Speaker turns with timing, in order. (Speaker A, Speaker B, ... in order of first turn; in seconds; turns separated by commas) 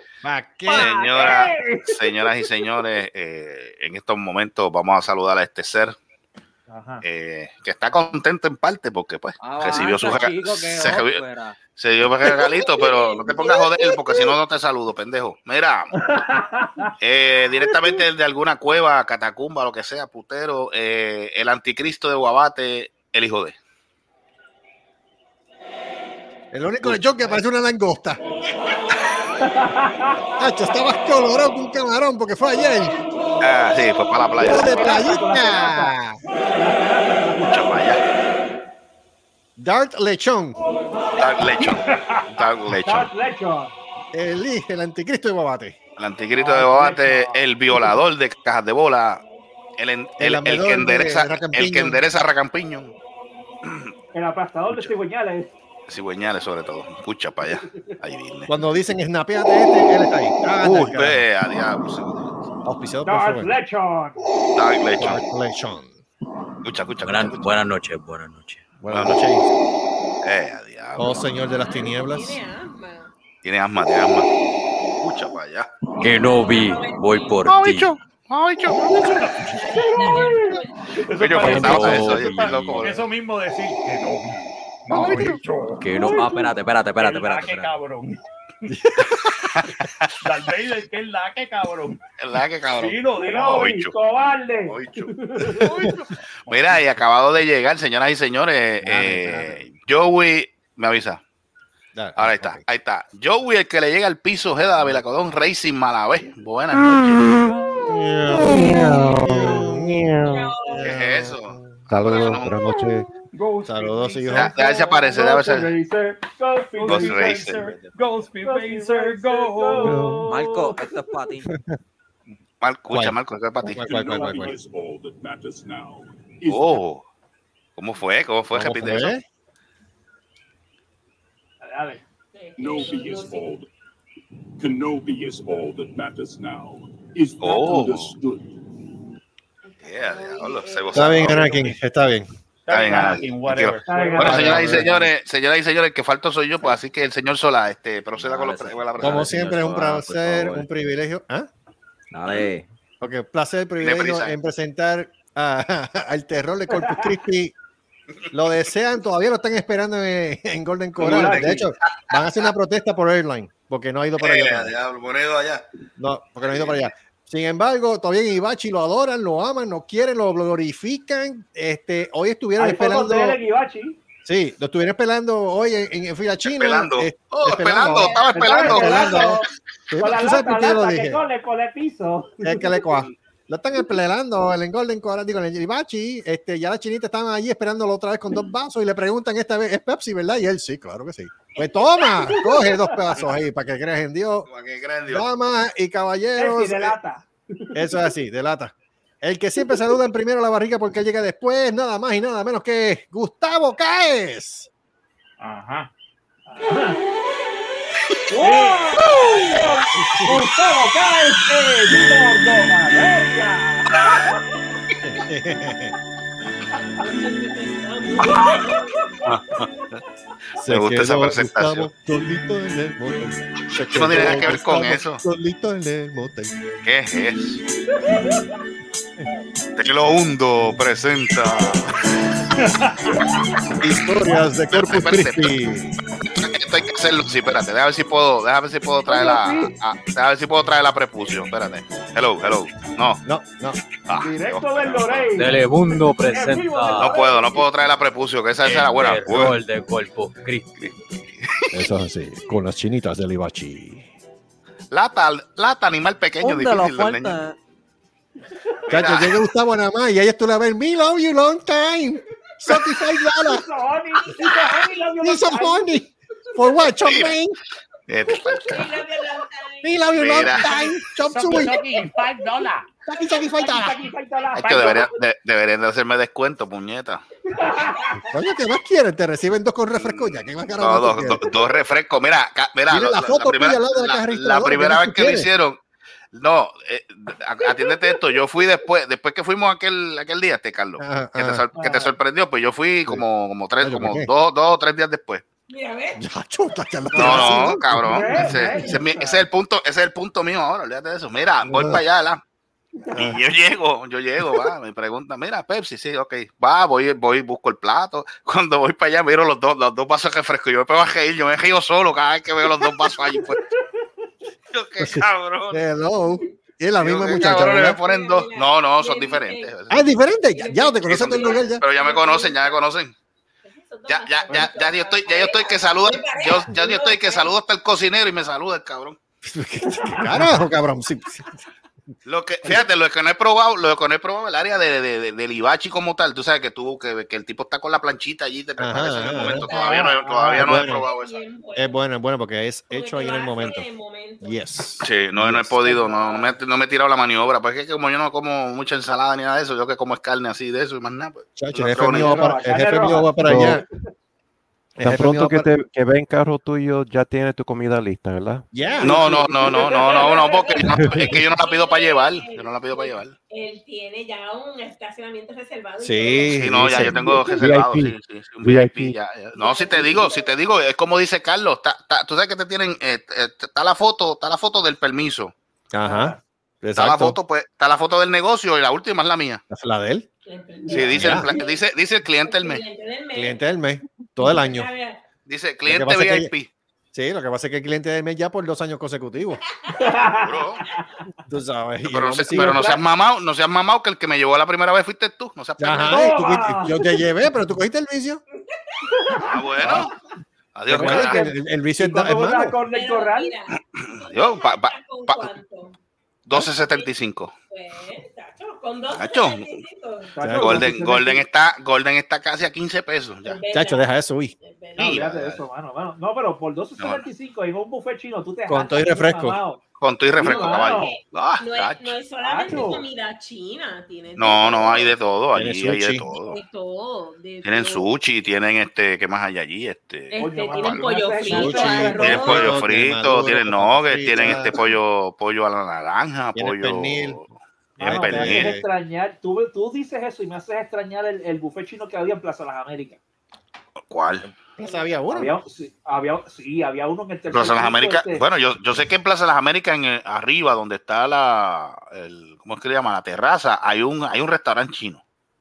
Speaker A: 0.2-1.3, Speaker B: 0.7-2.5, Speaker C: 0.7-5.9, Speaker B: 6.7-7.0, Speaker C: 7.0-11.2, Speaker D: 9.4-11.6, Speaker C: 11.8-15.9, Speaker E: 12.8-14.2, Speaker B: 15.9-16.9, Speaker C: 17.0-23.6, Speaker A: 26.5-28.2, Speaker C: 26.8-27.4, Speaker B: 29.4-30.3, Speaker A: 30.4-33.0, Speaker C: 33.4-34.9, Speaker A: 34.4-36.2, Speaker B: 34.5-37.8, Speaker C: 37.4-38.0, Speaker A: 39.6-40.6, Speaker C: 41.2-43.1, Speaker B: 41.6-42.2, Speaker B: 42.8-43.7, Speaker A: 44.1-45.8, Speaker C: 46.0-49.2, Speaker B: 46.3-47.5, Speaker C: 49.8-52.9, Speaker A: 50.2-52.0, Speaker C: 53.6-53.9, Speaker B: 54.1-55.5, Speaker C: 55.9-58.5, Speaker A: 58.5-61.2, Speaker C: 60.6-62.5, Speaker A: 62.6-63.6, Speaker B: 63.0-64.2, Speaker C: 64.5-65.2, Speaker A: 65.0-66.0, Speaker C: 66.6-67.6, Speaker D: 67.0-68.6, Speaker A: 68.8-69.5, Speaker C: 68.9-69.2, Speaker C: 70.2-71.3, Speaker A: 71.0-72.4, Speaker E: 71.5-73.1, Speaker C: 73.4-74.3, Speaker C: 75.0-75.7, Speaker D: 76.0-78.0, Speaker E: 76.0-77.4, Speaker C: 77.4-79.2, Speaker F: 79.0-86.4, Speaker E: 79.0-81.0, Speaker C: 81.2-83.0, Speaker D: 81.3-82.9, Speaker C: 84.9-85.4, Speaker D: 85.8-87.8, Speaker B: 86.0-86.2, Speaker F: 87.0-88.7, Speaker A: 88.7-89.7, Speaker C: 89.5-90.1, Speaker F: 90.2-92.0, Speaker C: 92.2-93.9, Speaker F: 92.7-93.5, Speaker B: 93.2-95.7, Speaker C: 94.7-95.1, Speaker F: 95.7-96.8, Speaker C: 96.5-101.2, Speaker A: 98.8-99.6, Speaker A: 101.9-102.6, Speaker C: 102.2-107.5, Speaker A: 107.8-113.1, Speaker B: 108.5-109.5, Speaker E: 110.2-110.9, Speaker C: 110.8-112.5, Speaker F: 113.3-114.8, Speaker A: 113.6-114.5, Speaker C: 114.3-115.7, Speaker B: 114.6-117.5, Speaker F: 116.8-120.0, Speaker C: 116.8-117.9, Speaker B: 118.4-120.9, Speaker A: 119.8-120.3, Speaker D: 120.3-121.5, Speaker A: 121.5-121.7, Speaker C: 122.6-124.0, Speaker A: 122.9-124.6, Speaker G: 123.7-126.8, Speaker C: 126.5-127.0, Speaker C: 127.8-129.1, Speaker A: 128.5-129.2, Speaker B: 131.6-132.0, Speaker E: 132.3-133.5, Speaker G: 132.6-133.7, Speaker G: 134.6-138.5, Speaker C: 137.4-138.1, Speaker E: 139.6-141.8, Speaker C: 139.8-141.5, Speaker A: 140.9-142.3, Speaker F: 142.7-144.9, Speaker C: 142.7-149.3, Speaker B: 143.9-144.8, Speaker A: 144.1-145.0, Speaker D: 148.2-150.7, Speaker A: 149.0-151.5, Speaker D: 152.1-152.7, Speaker A: 153.0-157.5, Speaker C: 153.8-154.3, Speaker B: 156.7-157.1, Speaker A: 158.3-164.7, Speaker B: 161.0-161.7, Speaker C: 161.0-162.5, Speaker C: 164.2-165.6, Speaker A: 166.0-173.4, Speaker C: 166.4-166.8, Speaker B: 172.6-174.0, Speaker A: 174.2-181.2, Speaker C: 176.4-179.3, Speaker E: 178.0-178.6, Speaker B: 178.3-179.5, Speaker B: 180.0-183.0, Speaker A: 182.4-194.5, Speaker E: 191.6-192.4, Speaker C: 194.5-195.2, Speaker A: 195.1-197.0, Speaker B: 196.3-197.8, Speaker A: 197.7-204.7, Speaker F: 205.4-205.9, Speaker B: 206.5-207.0, Speaker B: 208.3-214.4, Speaker F: 208.4-208.9, Speaker A: 210.0-210.4, Speaker A: 215.0-215.9, Speaker E: 217.0-219.1, Speaker C: 219.2-219.7, Speaker A: 220.6-226.6, Speaker C: 220.7-221.9, Speaker C: 223.9-225.2, Speaker C: 226.8-227.6, Speaker B: 228.1-228.4, Speaker C: 229.8-232.3, Speaker F: 232.8-233.1, Speaker A: 233.8-235.9, Speaker C: 234.7-235.6, Speaker C: 236.2-243.2, Speaker B: 239.1-239.7, Speaker A: 243.2-243.8, Speaker C: 244.1-245.3, Speaker B: 244.2-245.6, Speaker D: 245.4-247.1, Speaker B: 246.2-247.6, Speaker C: 247.0-249.6, Speaker D: 248.7-250.7, Speaker C: 251.4-251.9, Speaker A: 251.7-254.1, Speaker C: 254.9-257.4, Speaker D: 256.4-257.6, Speaker C: 258.9-259.4, Speaker A: 258.9-263.6, Speaker B: 263.4-265.9, Speaker E: 264.3-264.7, Speaker A: 265.2-267.6, Speaker C: 267.1-267.3, Speaker C: 268.1-269.0, Speaker A: 268.3-268.6, Speaker E: 268.7-270.8, Speaker A: 269.8-271.9, Speaker C: 270.1-270.7, Speaker F: 271.3-272.9, Speaker A: 273.1-274.1, Speaker B: 273.5-275.1, Speaker C: 274.6-277.2, Speaker B: 277.5-278.0, Speaker E: 277.7-278.3, Speaker A: 278.3-281.4, Speaker C: 279.9-285.8, Speaker A: 282.9-285.5, Speaker C: 286.3-295.4, Speaker A: 291.0-291.6, Speaker B: 291.8-292.1, Speaker A: 293.8-294.3, Speaker E: 295.7-296.2, Speaker A: 296.1-299.0, Speaker C: 297.1-302.4, Speaker E: 297.2-297.7, Speaker B: 298.0-299.4, Speaker A: 301.6-302.0, Speaker A: 303.1-303.4, Speaker C: 303.1-313.6, Speaker C: 314.7-315.8, Speaker A: 315.0-318.0, Speaker C: 317.0-320.1, Speaker E: 317.2-319.7, Speaker A: 319.9-321.8, Speaker E: 320.5-322.8, Speaker C: 321.0-323.1, Speaker E: 323.6-327.5, Speaker C: 324.1-329.2, Speaker A: 329.4-331.6, Speaker C: 332.2-341.4, Speaker A: 338.8-339.7, Speaker E: 339.2-340.2, Speaker B: 339.7-340.7, Speaker A: 340.6-341.1, Speaker E: 340.7-342.0, Speaker A: 341.7-343.9, Speaker E: 342.9-344.6, Speaker A: 344.4-346.0, Speaker C: 345.0-352.6, Speaker E: 346.1-346.5, Speaker A: 351.6-353.8, Speaker B: 352.1-353.8, Speaker H: 353.4-353.8, Speaker A: 355.0-355.7, Speaker H: 355.0-358.7, Speaker A: 358.7-360.1, Speaker E: 358.8-366.8, Speaker C: 359.0-363.3, Speaker A: 360.9-361.4, Speaker A: 366.0-369.1, Speaker C: 366.5-375.5, Speaker E: 369.6-370.5, Speaker A: 375.9-377.4, Speaker B: 376.0-376.4, Speaker C: 376.9-379.6, Speaker A: 379.7-380.3, Speaker E: 380.4-381.8, Speaker B: 380.9-381.3, Speaker C: 380.9-382.8, Speaker A: 381.1-381.5, Speaker E: 382.4-383.6, Speaker A: 383.3-384.9, Speaker E: 384.4-385.2, Speaker C: 385.5-386.7, Speaker A: 385.9-386.5, Speaker A: 387.1-389.6, Speaker E: 389.9-390.4, Speaker B: 390.0-391.0, Speaker C: 390.4-390.8, Speaker A: 391.5-392.9, Speaker C: 392.0-396.4, Speaker B: 392.5-393.0, Speaker A: 395.8-398.4, Speaker B: 396.1-397.1, Speaker E: 398.8-399.9, Speaker B: 399.1-399.5, Speaker C: 399.4-400.1, Speaker C: 400.7-401.4, Speaker A: 400.9-402.8, Speaker B: 400.9-403.5, Speaker E: 402.9-406.0, Speaker C: 404.0-405.5, Speaker C: 406.5-407.5, Speaker E: 406.5-407.1, Speaker E: 407.7-410.4, Speaker C: 409.1-409.7, Speaker B: 410.3-411.4, Speaker A: 410.4-410.9, Speaker C: 410.6-413.6, Speaker E: 413.4-414.1, Speaker A: 413.7-414.5, Speaker E: 414.6-415.2, Speaker B: 415.0-419.8, Speaker C: 415.0-415.6, Speaker C: 417.0-417.2, Speaker A: 418.7-419.6, Speaker C: 420.0-422.1, Speaker B: 420.4-421.2, Speaker E: 420.4-425.1, Speaker B: 422.4-423.0, Speaker C: 424.4-426.6, Speaker A: 425.5-426.2, Speaker E: 426.3-428.1, Speaker C: 427.6-431.0, Speaker E: 430.3-432.8, Speaker B: 430.4-432.5, Speaker A: 431.5-434.8, Speaker C: 432.2-438.7, Speaker A: 436.5-437.4, Speaker B: 438.0-443.2, Speaker A: 438.0-438.9, Speaker C: 444.1-444.5, Speaker A: 444.4-445.5, Speaker B: 445.3-448.4, Speaker C: 447.5-455.2